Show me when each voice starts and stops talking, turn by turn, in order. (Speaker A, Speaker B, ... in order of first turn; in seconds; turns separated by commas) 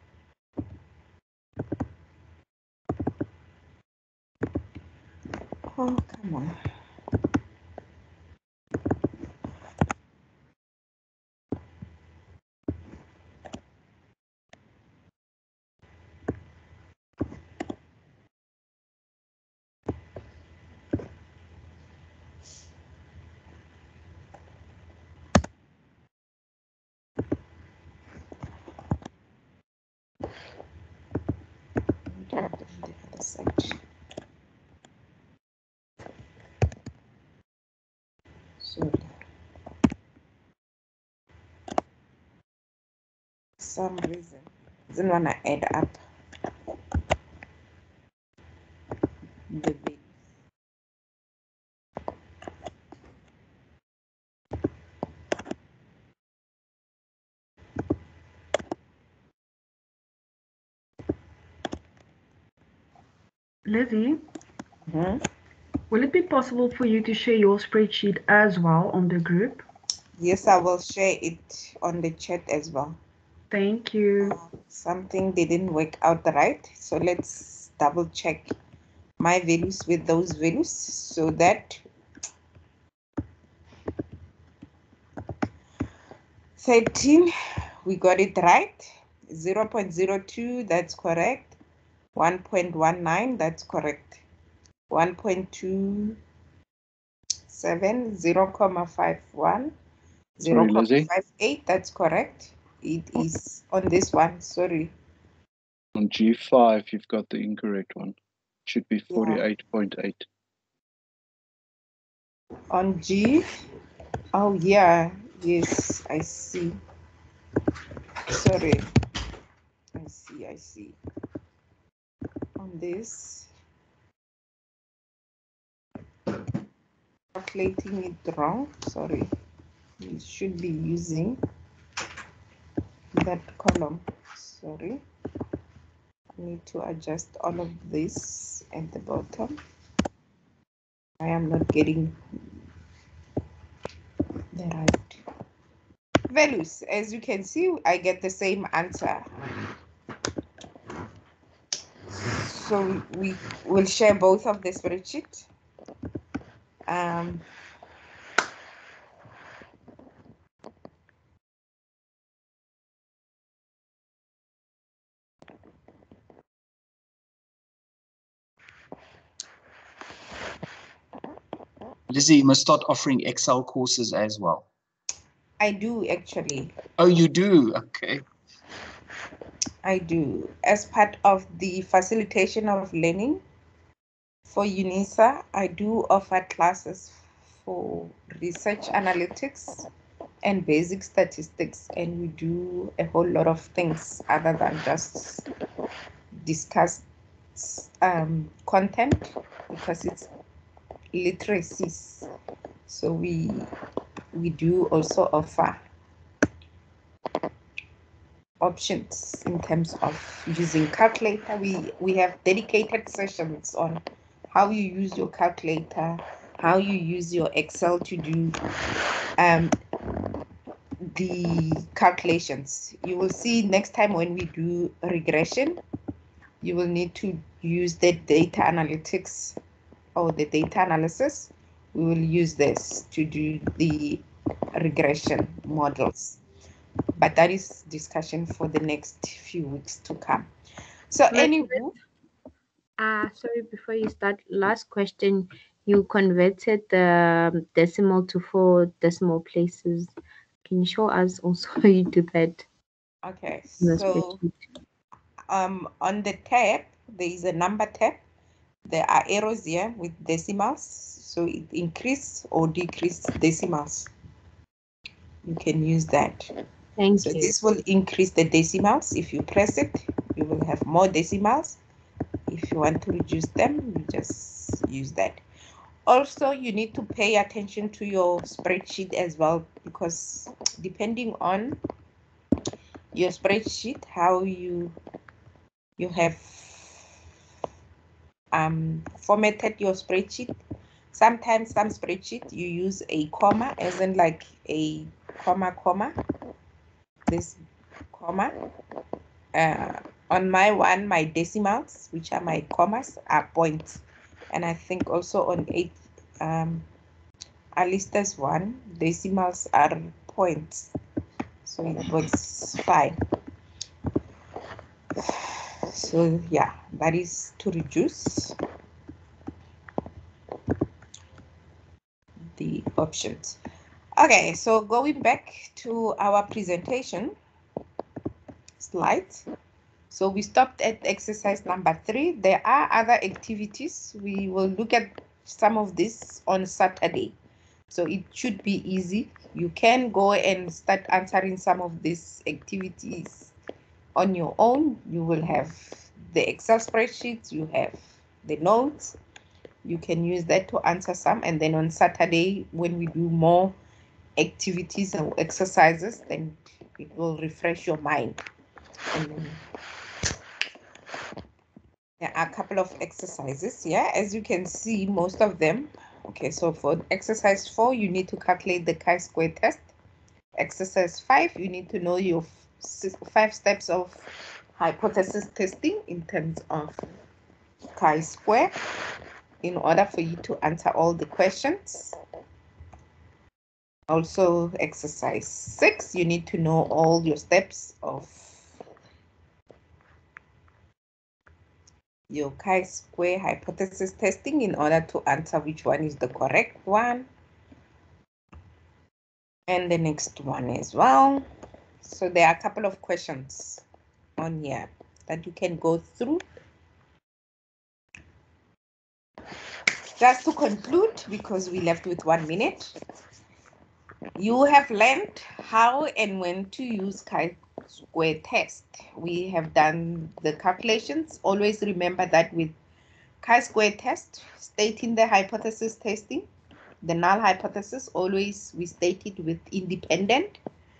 Speaker A: 5.7-6.6, Speaker A: 32.1-33.8, Speaker A: 38.6-39.1, Speaker A: 43.6-46.0, Speaker A: 49.5-50.1, Speaker B: 63.7-64.2, Speaker A: 64.9-65.2, Speaker B: 65.9-69.7, Speaker A: 70.2-73.0, Speaker B: 73.5-74.4, Speaker A: 74.2-78.5, Speaker A: 79.2-81.8, Speaker A: 86.6-87.3, Speaker A: 87.8-91.6, Speaker A: 92.2-94.2, Speaker A: 94.9-96.2, Speaker A: 97.5-99.7, Speaker C: 100.4-101.1, Speaker A: 100.5-104.9, Speaker C: 106.0-108.2, Speaker C: 108.7-110.2, Speaker A: 109.1-109.4, Speaker A: 112.7-113.5, Speaker A: 114.3-116.8, Speaker A: 118.3-118.9, Speaker A: 120.0-121.0, Speaker A: 122.6-123.5, Speaker A: 127.3-129.3, Speaker A: 130.0-131.4, Speaker A: 133.2-135.0, Speaker A: 136.4-139.6, Speaker A: 141.2-142.2, Speaker A: 144.6-145.2, Speaker A: 146.3-149.3, Speaker A: 152.2-155.5, Speaker A: 156.9-157.4, Speaker D: 172.1-174.7, Speaker A: 175.6-176.7, Speaker D: 177.0-178.2, Speaker A: 179.8-183.4, Speaker A: 184.5-189.9, Speaker A: 190.4-195.5, Speaker A: 196.4-197.0, Speaker A: 197.6-200.3, Speaker A: 201.1-202.3, Speaker A: 202.9-203.7, Speaker A: 204.3-205.8, Speaker A: 208.6-218.6, Speaker A: 219.4-219.8, Speaker A: 221.0-225.8, Speaker A: 226.6-229.6, Speaker A: 230.2-234.2, Speaker A: 234.8-236.4, Speaker A: 237.2-240.5, Speaker A: 241.1-241.9, Speaker E: 241.3-241.9, Speaker E: 243.0-250.1, Speaker E: 250.7-252.7, Speaker A: 253.2-254.4, Speaker E: 253.8-254.5, Speaker A: 255.5-258.2, Speaker A: 258.9-264.1, Speaker A: 265.5-266.5, Speaker E: 267.0-267.6, Speaker A: 267.2-271.8, Speaker A: 272.5-275.4, Speaker A: 276.1-281.8, Speaker A: 283.1-284.9, Speaker A: 286.0-287.1, Speaker A: 288.5-290.6, Speaker A: 291.1-296.1, Speaker A: 297.3-297.6, Speaker A: 298.1-298.5, Speaker A: 299.5-306.9, Speaker A: 307.8-310.9, Speaker A: 311.6-313.2, Speaker A: 315.2-318.6, Speaker A: 322.6-323.6, Speaker A: 324.2-327.4, Speaker A: 328.8-329.5, Speaker A: 330.1-337.3, Speaker A: 337.9-343.5, Speaker A: 344.1-349.1, Speaker A: 349.9-353.7, Speaker A: 354.4-358.4, Speaker A: 359.1-359.6, Speaker A: 362.2-369.9, Speaker A: 370.6-374.3, Speaker A: 374.8-377.1, Speaker A: 378.0-378.7, Speaker A: 379.6-382.1, Speaker A: 384.1-388.7, Speaker A: 392.3-397.3, Speaker A: 399.7-401.4, Speaker A: 402.0-403.8, Speaker A: 404.4-406.4, Speaker A: 410.2-413.0, Speaker A: 414.4-422.7, Speaker A: 423.4-426.5, Speaker A: 427.0-430.6